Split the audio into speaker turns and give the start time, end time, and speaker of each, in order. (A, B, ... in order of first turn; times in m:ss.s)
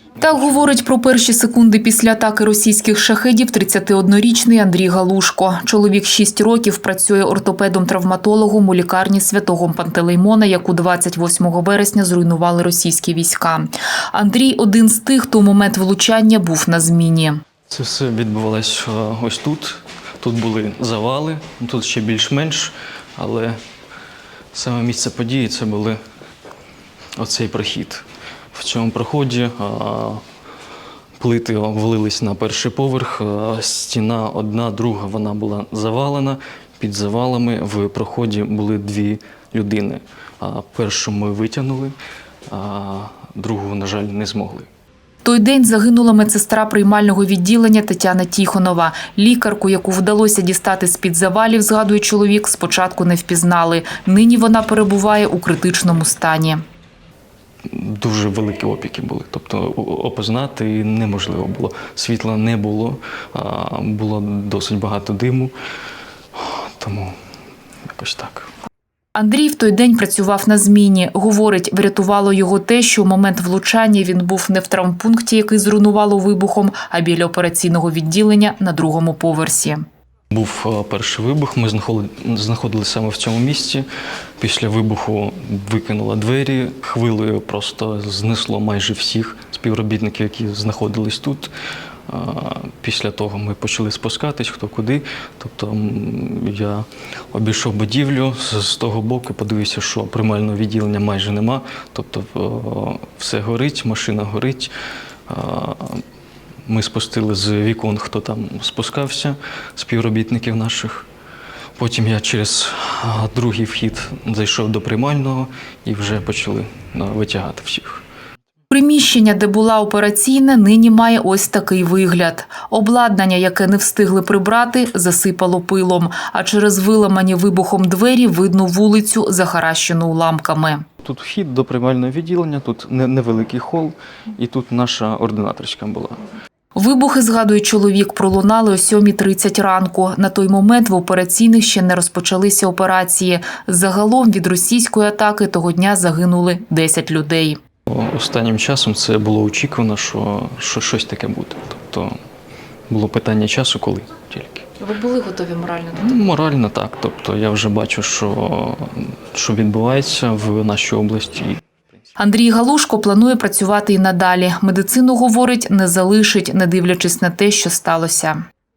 0:00.2-0:17.4 A
0:17.7-0:23.6 B
0:24.5-0:26.0 B
0:27.2-0:30.2 B
0:31.2-0:42.0 B
0:42.5-0:44.7 B
0:45.2-0:56.6 A
0:57.6-1:05.5 B
1:06.3-1:07.2 B
1:07.9-1:08.5 B
1:09.2-1:19.8 A
1:20.3-1:23.9 B
1:24.4-1:31.5 B
1:32.1-1:44.7 B
1:45.3-1:46.0 B
1:46.6-1:51.1 B
1:51.8-1:58.0 B
1:58.7-2:10.8 A
2:11.0-2:16.2 B
2:16.7-2:27.6 A
2:27.8-2:32.2 B
2:32.9-2:34.7 B
2:34.8-2:36.2 A
2:36.0-2:41.6 B
2:42.2-2:48.4 A